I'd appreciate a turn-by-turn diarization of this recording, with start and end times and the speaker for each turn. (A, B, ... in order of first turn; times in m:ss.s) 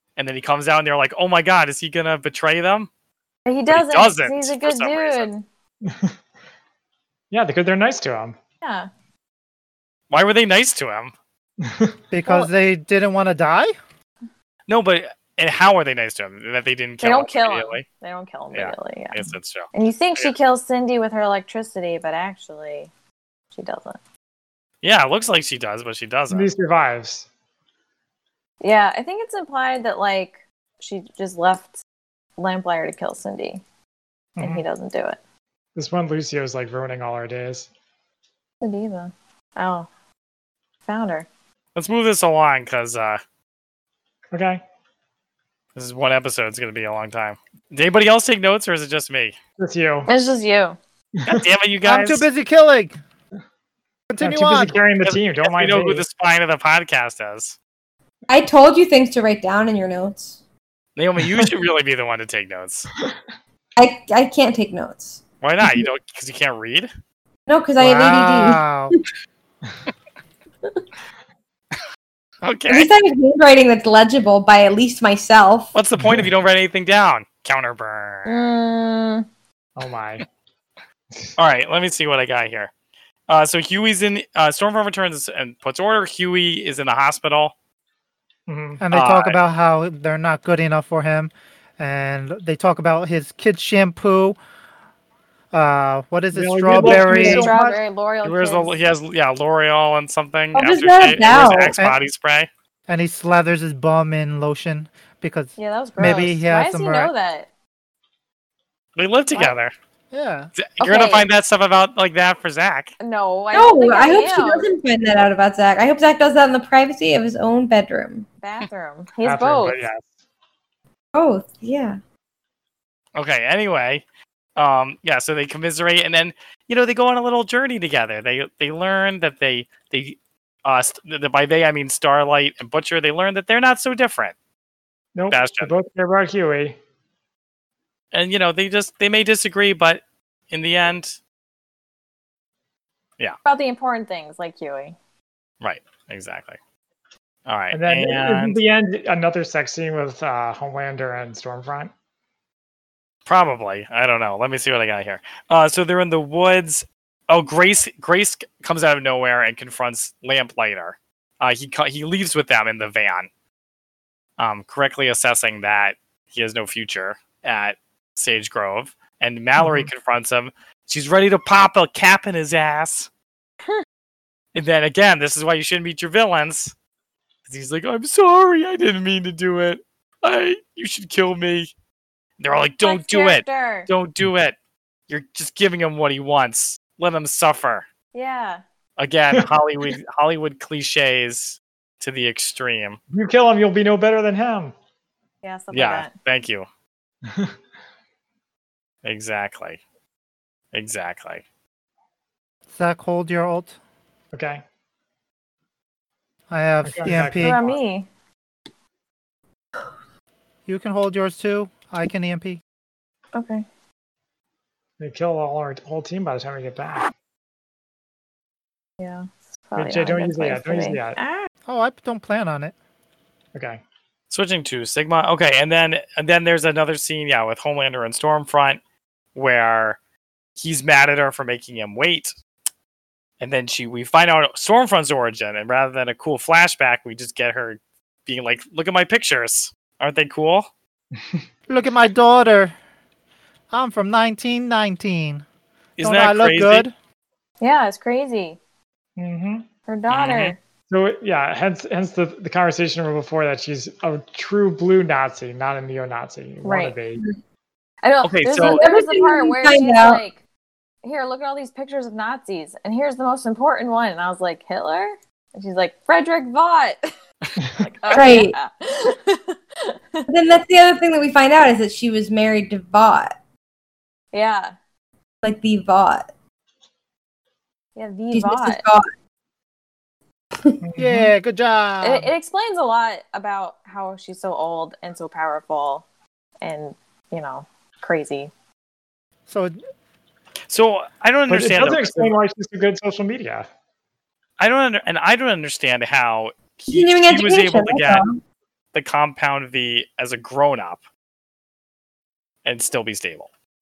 0:00.2-0:02.9 A
0:03.4-0:05.4 B
0:03.7-0:05.3 A
0:05.8-0:06.1 C
0:07.3-0:08.4 C
0:08.6-0:08.9 B
0:10.1-0:11.1 A
0:11.6-0:12.0 C
0:12.1-0:13.7 D
0:14.7-0:17.8 A
0:17.0-0:22.9 B
0:18.5-0:19.7 A
0:23.5-0:24.0 B
0:24.8-0:26.5 A
0:26.3-0:27.3 C
0:28.6-0:31.8 B
0:32.4-0:33.6 B
0:34.4-0:34.6 C
0:34.4-0:35.2 B
0:35.8-0:37.7 C
0:38.6-0:39.9 B
0:40.9-0:41.3 B
0:41.7-0:43.2 A
0:44.3-0:44.6 C
0:45.7-0:49.4 A
0:49.6-0:50.1 C
0:50.0-0:50.8 B
0:51.2-0:52.2 A
0:51.8-0:53.0 D
0:54.1-0:54.7 D
0:54.2-0:56.0 C
0:55.0-0:57.6 A
0:58.3-1:00.4 E
1:01.0-1:02.9 A
1:03.8-1:05.8 E
1:05.4-1:06.9 A
1:07.5-1:09.0 E
1:07.8-1:09.0 D
1:12.4-1:12.9 A
1:12.7-1:15.7 E
1:15.7-1:18.5 A
1:16.0-1:16.3 C
1:18.2-1:19.2 B
1:19.8-1:20.2 C
1:21.4-1:22.7 A
1:23.3-1:27.5 A
1:28.5-1:28.8 C
1:28.8-1:34.4 D
1:28.9-1:29.4 A
1:35.5-1:37.6 D
1:36.3-1:37.6 C
1:36.8-1:37.4 E
1:36.9-1:38.8 B
1:38.2-1:42.5 A
1:40.5-1:41.8 E
1:42.9-1:47.1 D
1:45.6-1:47.5 B
1:49.0-1:49.7 A
1:50.1-1:50.5 D
1:50.6-1:52.9 A
1:50.8-1:51.2 B
1:53.0-1:54.7 B
1:53.5-1:58.2 E
1:58.4-1:59.8 B
1:59.2-2:00.1 C
2:01.1-2:02.0 E
2:03.2-2:04.0 A
2:04.6-2:14.3 A
2:15.1-2:16.8 C
2:15.3-2:15.7 A
2:18.1-2:21.2 A
2:23.4-2:25.0 B
2:25.6-2:26.6 A
2:27.5-2:28.6 A
2:27.7-2:31.9 C
2:33.2-2:43.3 A
2:44.4-2:53.1 A
2:49.6-2:49.9 C
2:54.5-2:56.7 A
2:57.5-3:01.7 A
3:02.4-3:04.5 A
3:02.8-3:03.9 B
3:05.1-3:07.8 A
3:08.1-3:08.6 B
3:09.0-3:13.0 A
3:13.1-3:14.7 C
3:15.4-3:16.1 B
3:15.7-3:16.7 A
3:17.3-3:17.5 C
3:19.0-3:19.8 A
3:20.7-3:21.4 A
3:22.7-3:23.8 D
3:24.3-3:24.6 C
3:26.5-3:27.6 D
3:26.8-3:27.8 C
3:27.3-3:28.1 B
3:30.6-3:32.6 D
3:33.3-3:33.6 B
3:35.0-3:37.1 C
3:39.0-3:41.5 B
3:39.8-3:41.2 C
3:41.6-3:42.7 D
3:43.5-3:43.8 C
3:44.3-3:48.8 A
3:49.3-3:50.0 A
3:50.6-3:52.4 A
3:53.4-4:00.7 A
4:01.2-4:01.4 C
4:01.7-4:02.7 D
4:03.7-4:05.4 D
4:06.0-4:06.8 A
4:06.0-4:06.9 D
4:07.6-4:08.6 B
4:09.2-4:09.7 C
4:09.9-4:10.6 B
4:10.1-4:10.5 A
4:10.9-4:17.2 C
4:16.6-4:17.0 B
4:18.0-4:20.4 B
4:18.2-4:18.8 A
4:18.6-4:20.2 E
4:21.0-4:27.1 B
4:27.8-4:30.3 B
4:28.1-4:28.4 A
4:28.1-4:28.5 E
4:30.3-4:33.3 E
4:34.3-4:34.7 B
4:35.4-4:36.3 E
4:38.0-4:38.8 B
4:38.3-4:39.1 E
4:40.8-4:41.3 C
4:41.0-4:42.3 D
4:42.0-4:46.0 B
4:46.6-4:48.5 B
4:49.5-4:49.8 D
4:50.7-4:52.4 A
4:51.5-4:53.7 C
4:54.6-4:58.2 A
4:56.9-4:58.4 E
4:58.9-5:01.0 A
5:02.6-5:03.5 A